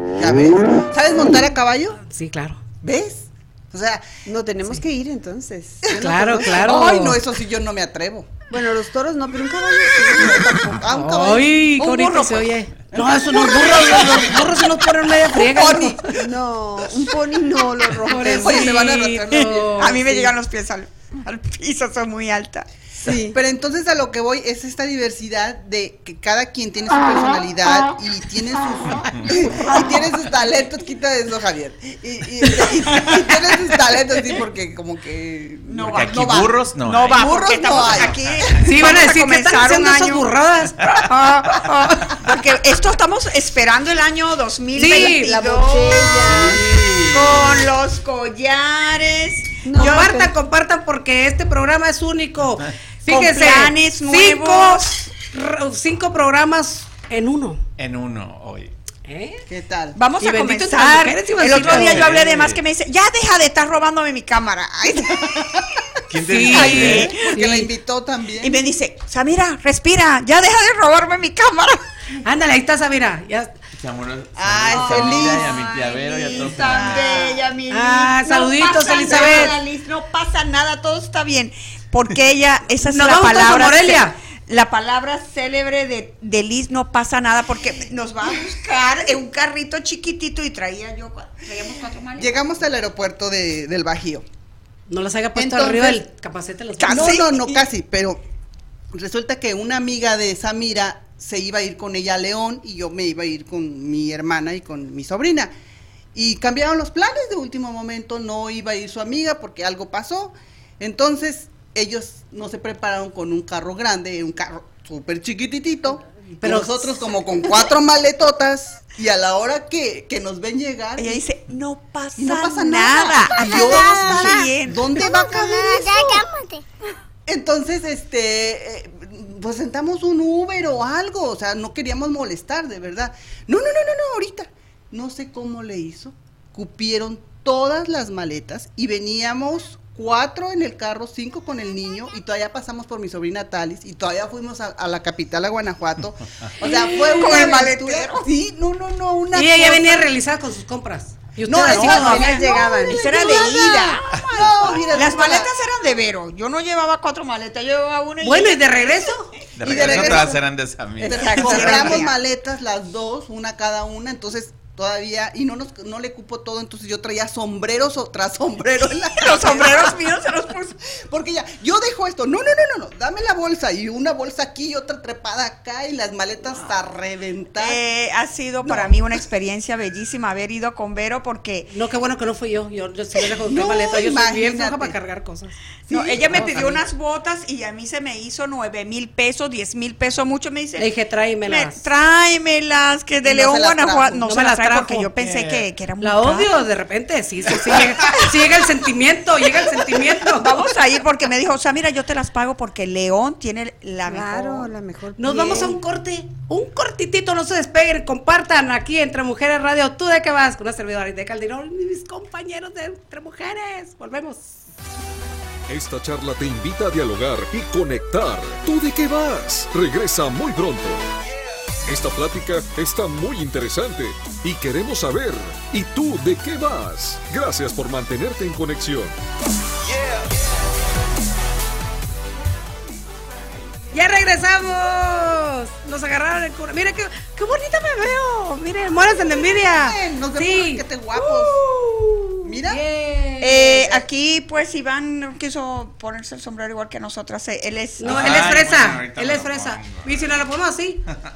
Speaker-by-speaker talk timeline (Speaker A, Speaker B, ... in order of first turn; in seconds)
Speaker A: 0.2-2.0, 2.8-4.1, 5.8-8.4, 10.1-16.2, 18.2-19.9, 23.1-38.2, 59.5-60.0, 66.8-68.6, 74.3-75.5, 76.3-77.4, 79.1-79.5, 92.2-94.2, 95.3-96.0, 96.8-98.2, 98.9-105.5, 106.1-121.2, 122.2-126.3, 127.2-150.1, 151.4-155.5, 159.6-160.4, 161.0-170.0, 170.9-177.8, 178.6-179.1, 183.4-184.9, 185.9-186.8, 193.2-194.2, 239.7-241.6, 242.4-242.8
Speaker B: 2.0-2.6, 5.9-7.2, 10.9-16.1, 18.1-20.3, 38.6-40.8, 44.7-45.3, 49.8-57.6, 59.0-59.5, 60.2-62.1, 66.3-67.7, 72.2-73.5, 77.7-79.5, 82.8-84.2, 94.9-97.2, 116.4-117.0, 146.6-147.2, 149.3-152.3, 158.2-159.3, 181.7-185.6, 190.8-191.8, 194.3-195.1, 196.0-200.6, 205.2-214.6, 233.9-243.9, 248.0-251.0
Speaker C: 4.2-6.6, 8.5-10.4, 16.2-18.8, 23.0-23.4, 44.9-46.6, 49.6-50.3, 152.0-153.1, 204.1-205.8
Speaker D: 19.7-22.7, 35.7-36.4, 36.9-40.3, 40.8-46.6, 47.1-50.1, 53.0-55.1, 60.0-65.5, 66.5-67.5, 68.4-71.8, 74.7-92.4, 96.8-97.7, 121.0-126.3, 146.6-148.3, 151.7-159.0, 161.0-162.2, 169.1-170.7, 177.6-181.7, 185.9-190.9, 191.4-196.6, 200.3-204.7, 243.4-248.3
Speaker E: 29.1-29.4, 35.8-37.3, 37.9-38.5, 46.3-47.6, 57.8-58.7, 61.4-62.6, 66.1-67.1, 73.8-77.1, 154.2-154.7, 159.6-162.0, 195.2-195.7, 248.0-250.4
Speaker F: 215.7-221.1, 221.8-229.1